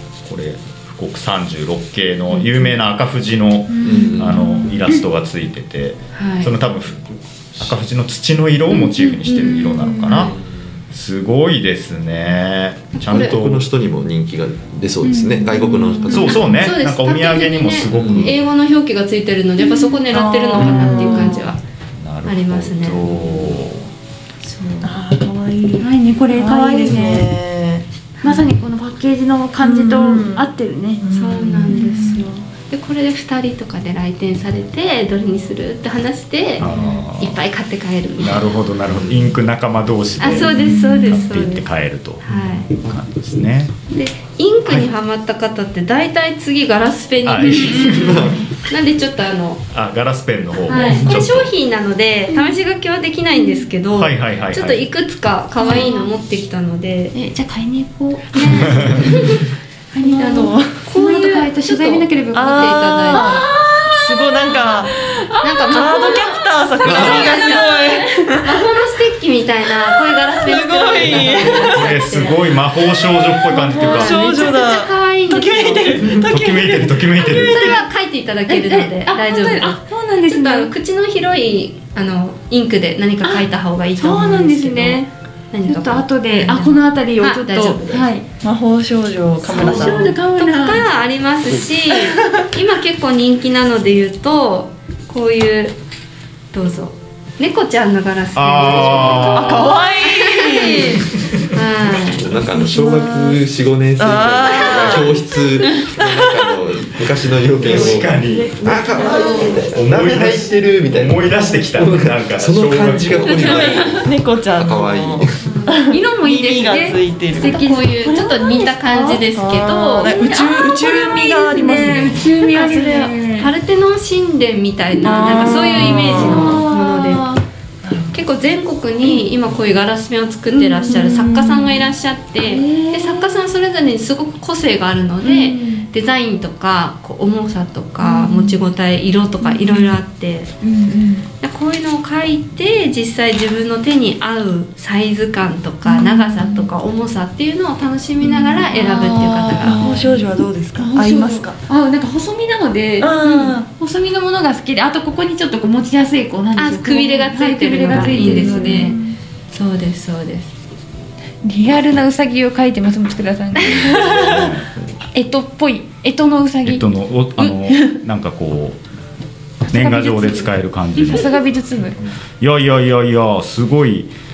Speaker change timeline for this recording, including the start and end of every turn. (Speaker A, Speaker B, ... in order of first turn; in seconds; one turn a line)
Speaker A: 0.2-10.3
Speaker B: 3.7-5.0
Speaker C: 3.8-4.6
Speaker D: 6.1-6.5
Speaker B: 8.7-10.3
Speaker D: 9.3-9.6
Speaker C: 10.2-10.8
Speaker A: 10.9-13.7
Speaker D: 12.9-13.3
Speaker C: 13.1-16.5
Speaker B: 15.0-16.5
Speaker A: 16.1-18.4
Speaker D: 16.1-21.6
Speaker C: 17.9-18.3
Speaker B: 19.6-21.4
Speaker E: 20.2-21.4
Speaker A: 22.0-23.9
Speaker D: 22.2-23.6
Speaker D: 24.4-24.9
Speaker E: 24.8-27.8
Speaker B: 25.8-27.3
Speaker B: 28.2-31.0
Speaker E: 29.6-30.5
Speaker E: 31.0-31.9
Speaker D: 31.1-36.7
Speaker B: 31.6-32.2
Speaker A: 36.6-37.4
Speaker D: 37.2-38.5
Speaker A: 38.2-43.7
Speaker C: 38.9-39.2
Speaker D: 40.2-41.6
Speaker B: 40.5-41.2
Speaker D: 42.2-42.7
Speaker D: 43.9-49.6
Speaker A: 47.2-48.3
Speaker B: 47.4-48.5
Speaker C: 47.8-48.4
Speaker A: 49.7-51.5
Speaker D: 50.7-57.1
Speaker B: 52.3-52.6
Speaker B: 53.3-53.7
Speaker A: 54.0-54.9
Speaker B: 55.6-56.1
Speaker B: 57.1-59.3
Speaker D: 58.3-63.5
Speaker A: 58.7-59.0
Speaker B: 60.0-68.3
Speaker E: 60.2-60.8
Speaker E: 62.3-64.9
Speaker D: 65.4-67.7
Speaker E: 65.7-68.6
Speaker C: 66.8-67.2
Speaker D: 68.4-72.5
Speaker E: 70.1-72.0
Speaker A: 71.1-74.2
Speaker E: 73.5-77.4
Speaker D: 73.7-76.0
Speaker A: 76.0-77.8
Speaker D: 77.2-88.1
Speaker B: 78.5-80.7
Speaker B: 84.0-85.1
Speaker B: 85.6-88.2
Speaker E: 88.4-90.1
Speaker B: 89.5-90.8
Speaker D: 89.5-95.8
Speaker D: 96.5-102.3
Speaker A: 98.3-99.8
Speaker E: 99.1-101.0
Speaker B: 100.6-101.0
Speaker A: 101.1-101.5
Speaker C: 101.8-115.4
Speaker E: 102.4-103.4
Speaker E: 104.0-106.6
Speaker E: 107.6-109.7
Speaker A: 107.6-108.5
Speaker A: 109.7-113.9
Speaker E: 113.4-117.5
Speaker D: 115.4-115.8
Speaker B: 115.7-119.2
Speaker D: 117.4-127.3
Speaker E: 119.3-122.3
Speaker B: 120.0-123.5
Speaker B: 125.0-127.4
Speaker E: 125.0-126.7
Speaker E: 127.8-128.2
Speaker D: 128.1-140.5
Speaker B: 130.5-131.8
Speaker B: 132.4-133.5
Speaker B: 135.2-135.9
Speaker B: 138.0-138.6
Speaker B: 139.4-140.0
Speaker B: 140.6-141.3
Speaker D: 141.4-149.8
Speaker B: 145.8-146.7
Speaker B: 148.2-150.2
Speaker E: 149.6-151.6
Speaker B: 150.8-159.1
Speaker E: 153.0-153.7
Speaker D: 156.6-158.9
Speaker E: 157.9-159.0
Speaker D: 159.5-160.5
Speaker B: 161.4-164.5
Speaker A: 163.5-164.7
Speaker B: 165.1-166.8
Speaker A: 166.6-168.8
Speaker B: 167.4-168.0
Speaker B: 169.7-172.0
Speaker A: 169.7-171.4
Speaker A: 172.4-174.1